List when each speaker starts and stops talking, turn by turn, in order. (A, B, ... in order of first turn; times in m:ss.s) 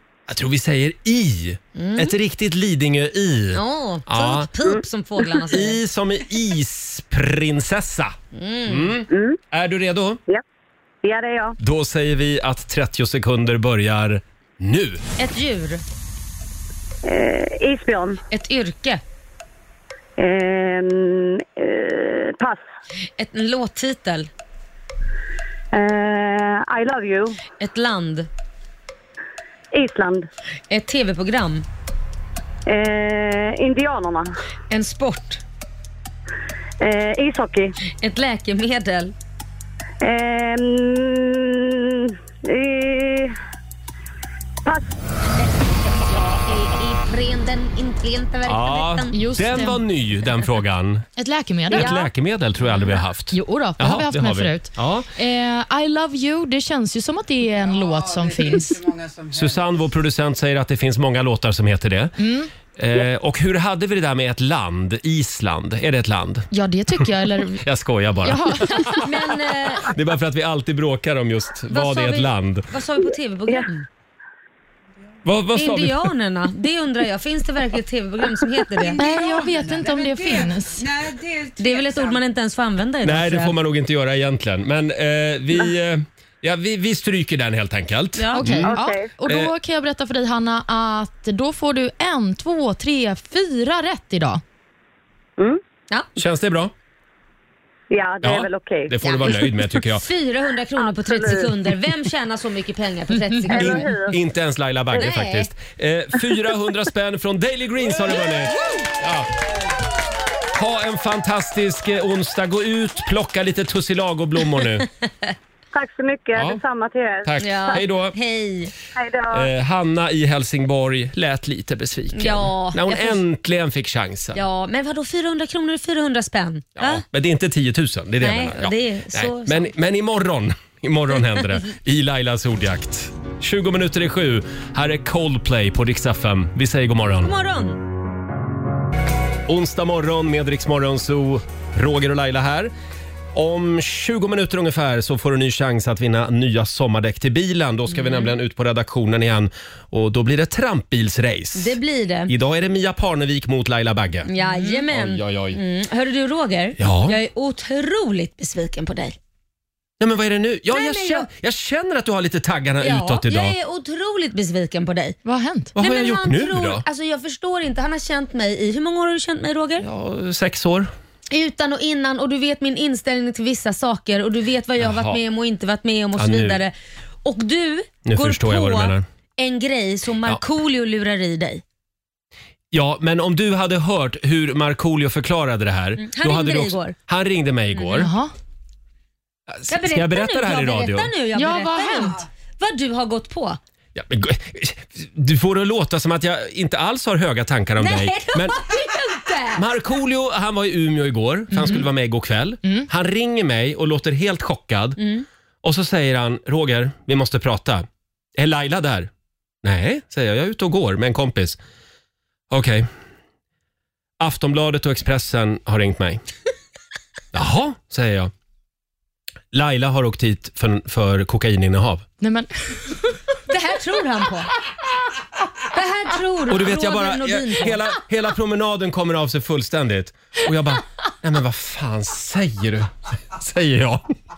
0:00.3-0:04.5 A
0:01.7-0:02.1 B
0:03.5-0:05.8 B
0:05.5-0:10.2 A
0:08.3-0:08.9 B
0:09.1-0:09.4 C
0:11.0-0:11.6 C
0:11.6-0:15.0 A
0:15.2-0:15.8 B
0:17.0-0:18.2 C
0:18.3-0:19.0 B
0:20.2-0:22.6 C
0:23.2-0:24.3 B
0:25.7-0:27.4 C
0:27.6-0:28.3 B
0:29.7-0:30.3 C
0:30.7-0:31.6 B
0:32.6-0:34.4 C
0:34.7-0:35.4 B
0:36.8-0:37.7 C
0:38.0-0:39.1 B
0:40.0-0:43.3 C
0:44.6-0:44.9 C
0:45.9-0:49.2 B
0:48.4-0:51.1 A
0:49.1-0:49.8 D
0:51.2-0:51.9 D
0:51.7-0:55.1 A
0:53.3-0:58.8 D
0:57.6-0:59.8 E
0:59.3-1:02.1 A
1:02.2-1:02.5 D
1:02.7-1:06.5 A
1:06.5-1:07.6 D
1:07.6-1:09.1 A
1:08.2-1:09.0 D
1:09.0-1:09.9 B
1:09.8-1:12.7 A
1:11.7-1:13.8 B
1:15.2-1:16.1 A
1:15.5-1:19.0 B
1:18.8-1:22.2 E
1:19.0-1:20.8 D
1:21.6-1:23.5 B
1:23.0-1:29.5 A
1:28.2-1:28.4 B
1:28.3-1:34.4 D
1:28.7-1:29.1 C
1:36.2-1:36.7 A
1:37.9-1:38.9 C
1:38.2-1:40.0 A
1:39.0-1:43.9 B
1:40.8-1:41.5 C
1:43.5-1:44.1 C
1:43.6-1:49.3 A
1:44.9-1:45.5 B
1:50.5-1:54.9 A
1:55.7-1:57.8 C
1:56.3-1:56.6 A
1:57.2-1:58.1 A
1:57.4-1:58.7 B
1:59.0-1:59.5 C
1:59.3-2:04.4 A
2:02.1-2:03.2 B
2:04.3-2:07.0 B
2:06.8-2:17.3 A
2:08.2-2:09.7 B
2:17.2-2:17.8 B
2:19.5-2:22.7 A
2:23.3-2:31.8 A
2:31.5-2:32.3 B
2:32.3-2:35.6 A
2:34.3-2:39.2 B
2:36.8-2:37.2 A
2:40.0-2:43.6 A
2:40.7-2:41.3 B
2:42.8-2:45.2 B
2:45.2-2:45.7 D
2:45.7-2:46.8 A
2:45.8-2:49.8 B
2:49.8-2:50.9 A
2:51.3-2:56.7 B
2:54.8-2:55.2 A
2:56.2-2:56.6 A
2:57.2-3:01.6 B
2:58.0-2:59.0 A
3:02.7-3:08.1 A
3:06.0-3:06.9 B
3:07.8-3:08.1 B
3:08.0-3:08.3 D
3:09.5-3:11.1 A
3:09.7-3:13.6 B
3:11.3-3:12.2 D
3:13.9-3:18.6 A
3:17.8-3:19.6 B
3:19.5-3:25.0 A
3:21.5-3:21.8 D
3:25.0-3:25.2 B
3:25.6-3:29.1 A
3:29.6-3:31.6 A
3:32.5-3:32.9 A
3:34.2-3:36.2 A
3:37.3-3:38.3 A
3:39.5-3:42.0 A
3:42.2-3:42.9 D
3:43.5-3:44.5 B
3:45.7-3:47.8 B
3:46.5-3:54.0 A